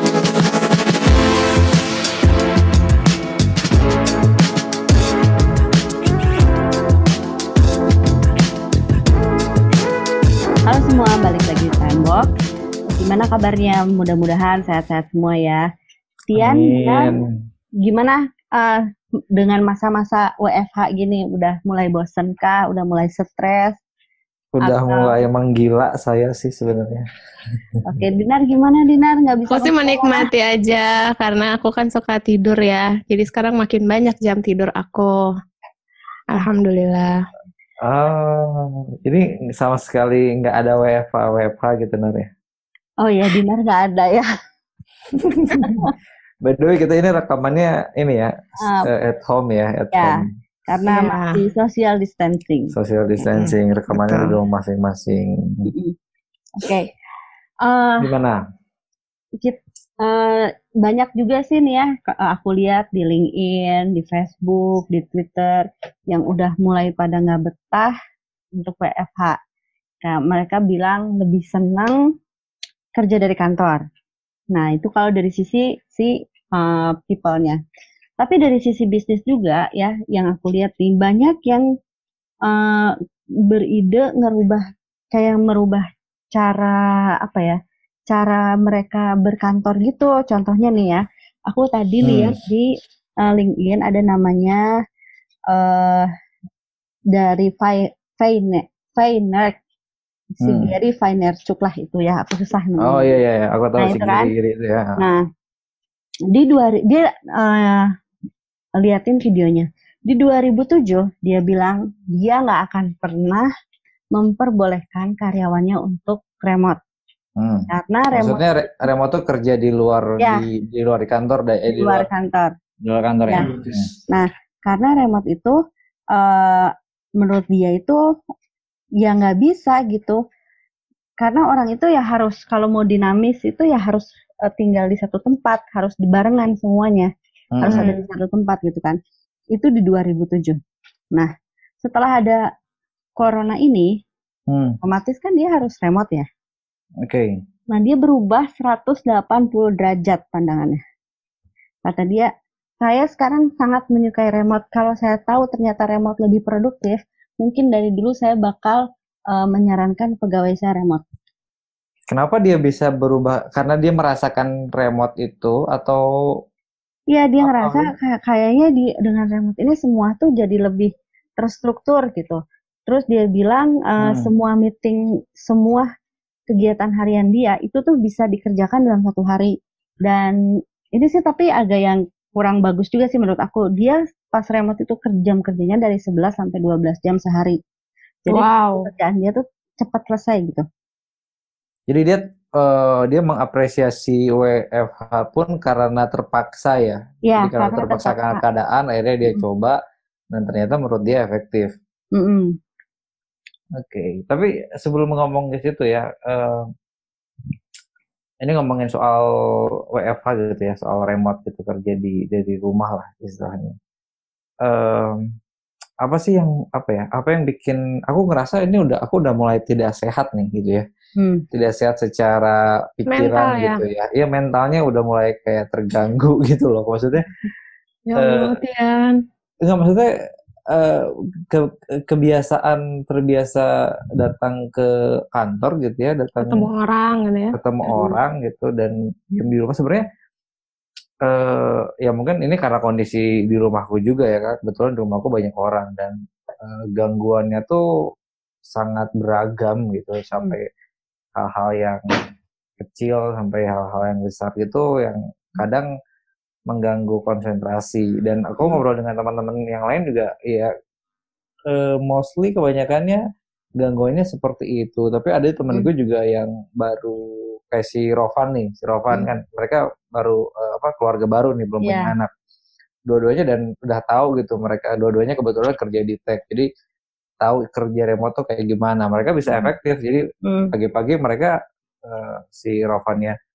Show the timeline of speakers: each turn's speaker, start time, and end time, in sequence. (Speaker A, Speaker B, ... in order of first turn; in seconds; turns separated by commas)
Speaker A: 10.7-12.3, Speaker A: 12.9-15.6, Speaker A: 16.3-17.1, Speaker B: 16.3-17.4, Speaker A: 17.8-23.8, Speaker B: 24.6-27.1, Speaker A: 24.6-25.2, Speaker A: 27.8-30.3, Speaker C: 29.5-35.1, Speaker C: 36.3-37.1, Speaker B: 37.8-42.3, Speaker A: 43.0-44.3, Speaker B: 45.5-45.8, Speaker A: 45.6-45.9, Speaker B: 46.4-50.3, Speaker A: 48.6-48.9, Speaker A: 49.9-53.4, Speaker C: 50.9-51.4, Speaker B: 52.7-55.7, Speaker A: 55.7-55.9, Speaker A: 56.6-56.9, Speaker A: 57.6-58.1, Speaker B: 58.0-58.4, Speaker A: 59.4-67.9, Speaker A: 68.5-69.4, Speaker A: 70.0-72.0, Speaker A: 73.0-73.8, Speaker A: 74.5-77.6, Speaker A: 78.2-81.6, Speaker A: 82.5-82.9, Speaker A: 83.5-87.6, Speaker A: 88.1-94.6, Speaker B: 92.0-92.3, Speaker A: 95.5-96.1, Speaker A: 97.1-99.6, Speaker A: 100.4-103.0, Speaker B: 100.4-100.7, Speaker B: 102.8-105.0, Speaker A: 103.8-104.3, Speaker A: 105.0-105.2, Speaker A: 106.3-107.9, Speaker A: 108.8-113.5, Speaker A: 114.1-116.8, Speaker B: 117.4-122.1, Speaker A: 117.7-118.5, Speaker A: 121.7-122.5, Speaker B: 122.8-123.9, Speaker A: 124.1-125.6, Speaker A: 126.1-128.0, Speaker A: 129.0-130.2, Speaker A: 131.2-139.0, Speaker B: 137.5-137.9, Speaker C: 137.7-138.0, Speaker A: 139.5-140.6, Speaker A: 141.8-142.4, Speaker A: 143.2-144.0, Speaker B: 144.5-144.8, Speaker A: 144.8-146.3, Speaker B: 147.0-147.3, Speaker A: 147.7-150.8, Speaker A: 151.8-161.0, Speaker B: 162.1-166.0, Speaker A: 167.1-175.9, Speaker B: 167.4-167.9, Speaker B: 174.0-174.3, Speaker A: 176.5-179.5, Speaker A: 180.0-180.4, Speaker A: 180.9-187.6, Speaker A: 188.2-190.7, Speaker C: 188.3-188.9, Speaker B: 191.9-199.8, Speaker A: 197.3-198.4, Speaker B: 200.3-201.7, Speaker A: 202.1-202.6, Speaker B: 203.8-206.7, Speaker B: 208.4-209.2, Speaker B: 209.9-213.8, Speaker B: 214.6-215.3, Speaker B: 216.0-220.8, Speaker A: 221.2-221.4, Speaker B: 221.5-227.3, Speaker C: 223.1-223.8, Speaker C: 228.1-229.2, Speaker B: 228.2-228.5, Speaker B: 229.6-230.1, Speaker B: 230.7-236.7, Speaker C: 236.4-237.6, Speaker B: 237.5-240.0, Speaker B: 241.2-247.8, Speaker B: 248.7-250.6, Speaker B: 251.3-252.0, Speaker B: 252.8-255.9, Speaker B: 256.7-260.7, Speaker B: 261.7-263.2, Speaker B: 263.8-272.3, Speaker A: 271.8-272.1, Speaker B: 273.1-276.7, Speaker B: 277.4-281.5, Speaker A: 280.4-280.7, Speaker B: 282.0-283.3